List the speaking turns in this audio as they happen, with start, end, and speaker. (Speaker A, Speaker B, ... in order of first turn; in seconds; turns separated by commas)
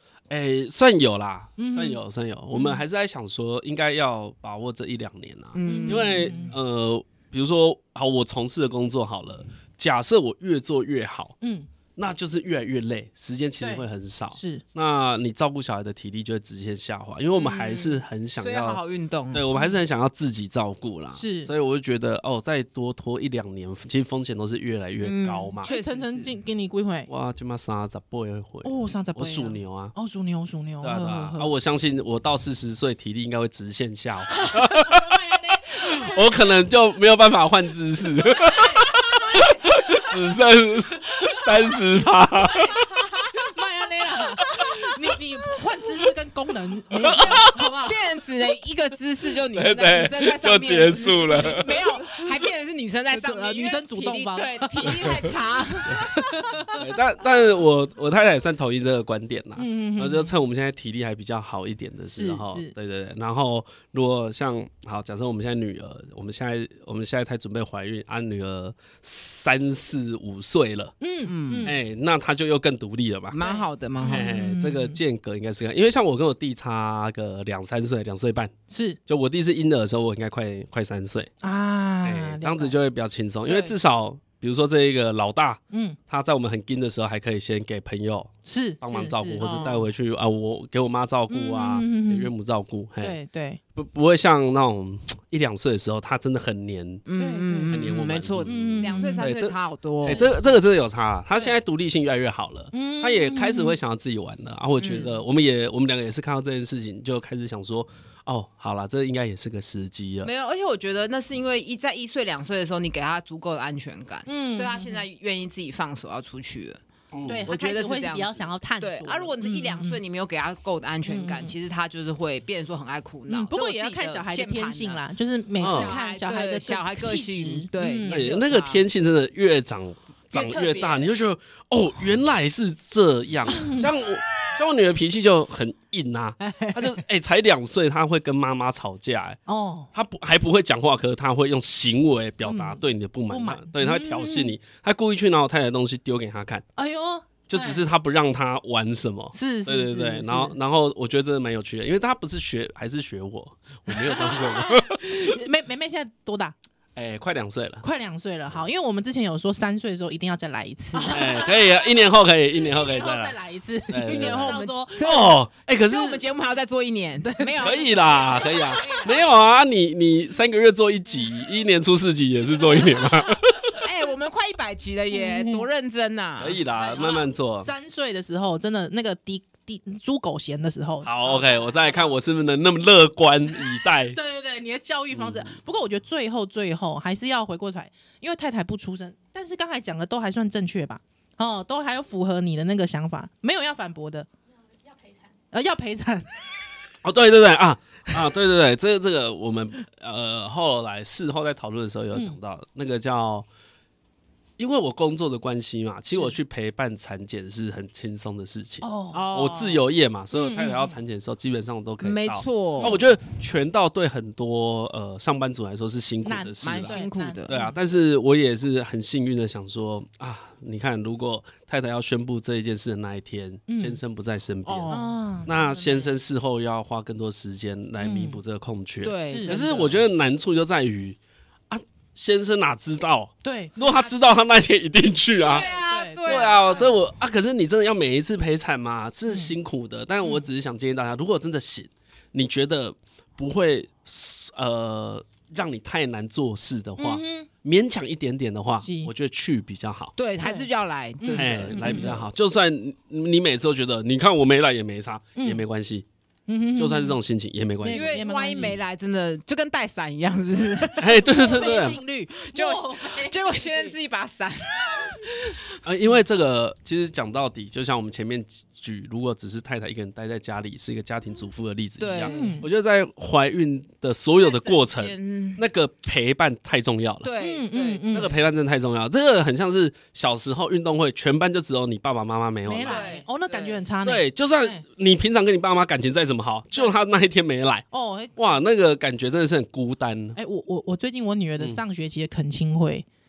Speaker A: 0.3-11.3, Speaker B: 1.6-2.0, Speaker B: 2.5-2.8, Speaker C: 5.6-6.4, Speaker B: 5.6-6.5, Speaker B: 11.4-11.7, Speaker A: 12.0-18.8, Speaker B: 13.6-14.6, Speaker B: 17.4-18.0, Speaker C: 18.4-19.4, Speaker A: 19.3-25.7, Speaker B: 21.1-21.5, Speaker C: 25.0-26.4, Speaker B: 25.6-27.1, Speaker A: 27.1-29.9, Speaker B: 28.6-31.5, Speaker A: 30.8-35.2, Speaker B: 34.4-36.6, Speaker A: 35.8-42.8, Speaker B: 38.3-40.2, Speaker B: 40.9-41.5, Speaker B: 42.5-48.0, Speaker C: 42.8-43.3, Speaker C: 44.5-44.8, Speaker A: 47.0-47.5, Speaker C: 47.0-56.8, Speaker A: 49.5-51.8, Speaker B: 51.0-52.2, Speaker B: 53.1-56.8, Speaker A: 56.8-70.9, Speaker B: 59.6-60.3, Speaker B: 62.1-62.7, Speaker B: 71.0-71.8, Speaker C: 71.3-71.7, Speaker A: 71.6-73.4, Speaker C: 73.3-74.3, Speaker B: 73.4-75.0, Speaker A: 74.0-78.5, Speaker B: 78.7-79.0, Speaker A: 79.1-81.3, Speaker B: 81.4-82.8, Speaker A: 82.0-93.2, Speaker C: 83.5-83.8, Speaker B: 85.7-86.0, Speaker B: 88.5-89.8, Speaker C: 89.4-89.8, Speaker B: 91.3-92.3, Speaker B: 93.0-93.6, Speaker A: 93.8-97.0, Speaker C: 97.1-100.3, Speaker B: 97.2-97.9, Speaker A: 97.7-110.3, Speaker B: 98.5-99.3, Speaker B: 100.0-100.4, Speaker B: 102.7-103.8, Speaker C: 104.8-105.2, Speaker C: 110.2-116.8, Speaker B: 114.3-115.0, Speaker A: 117.1-117.5, Speaker B: 117.3-120.0, Speaker C: 117.5-125.0, Speaker B: 121.1-121.5, Speaker B: 123.3-128.2, Speaker A: 125.6-125.9, Speaker C: 125.6-128.9, Speaker A: 128.1-139.4, Speaker B: 130.3-131.0, Speaker B: 133.5-133.9, Speaker B: 136.4-137.0, Speaker B: 139.5-139.9, Speaker A: 139.9-146.7, Speaker B: 142.4-144.5, Speaker B: 146.8-147.8, Speaker A: 147.5-155.4, Speaker B: 149.3-150.6, Speaker B: 153.9-156.6, Speaker A: 156.9-157.8, Speaker B: 157.8-161.6, Speaker C: 160.9-161.7, Speaker A: 161.1-163.4, Speaker B: 162.6-165.1, Speaker A: 163.9-166.2, Speaker C: 164.0-169.3, Speaker B: 167.2-169.2, Speaker A: 167.6-173.8, Speaker C: 173.6-176.6, Speaker B: 175.1-175.7, Speaker A: 176.4-177.7, Speaker B: 176.7-182.1, Speaker A: 181.1-184.2, Speaker B: 184.1-194.3, Speaker A: 185.1-185.5, Speaker B: 195.5-196.4, Speaker A: 197.0-203.5, Speaker A: 204.6-231.2, Speaker B: 208.8-209.6, Speaker C: 209.1-209.8, Speaker B: 210.3-210.9, Speaker C: 212.0-213.0, Speaker B: 216.2-217.8, Speaker C: 216.6-217.5, Speaker B: 223.7-224.0, Speaker C: 224.7-225.2, Speaker B: 224.9-226.1, Speaker B: 228.0-228.4, Speaker C: 229.0-230.0, Speaker B: 229.3-229.6, Speaker A: 231.7-235.7, Speaker B: 233.4-234.0, Speaker C: 233.8-234.1, Speaker C: 235.4-236.9, Speaker B: 235.5-236.9, Speaker A: 236.2-250.1, Speaker B: 239.3-239.5, Speaker B: 247.0-247.5, Speaker B: 248.8-249.1, Speaker C: 250.2-252.2, Speaker B: 250.4-250.7, Speaker B: 251.2-252.2, Speaker A: 251.3-256.1, Speaker B: 255.4-255.6, Speaker B: 256.5-257.2, Speaker A: 256.8-258.1, Speaker B: 257.8-258.8, Speaker C: 257.9-265.3, Speaker B: 260.8-264.0, Speaker A: 261.0-262.0, Speaker B: 264.9-265.4, Speaker A: 265.8-277.3, Speaker C: 272.0-272.6, Speaker B: 272.3-272.7, Speaker C: 274.4-275.6, Speaker C: 277.2-278.3, Speaker B: 277.4-278.4, Speaker A: 278.1-283.2, Speaker B: 282.7-284.8, Speaker C: 282.8-283.9, Speaker A: 284.0-290.4, Speaker B: 287.9-288.4, Speaker B: 290.4-293.1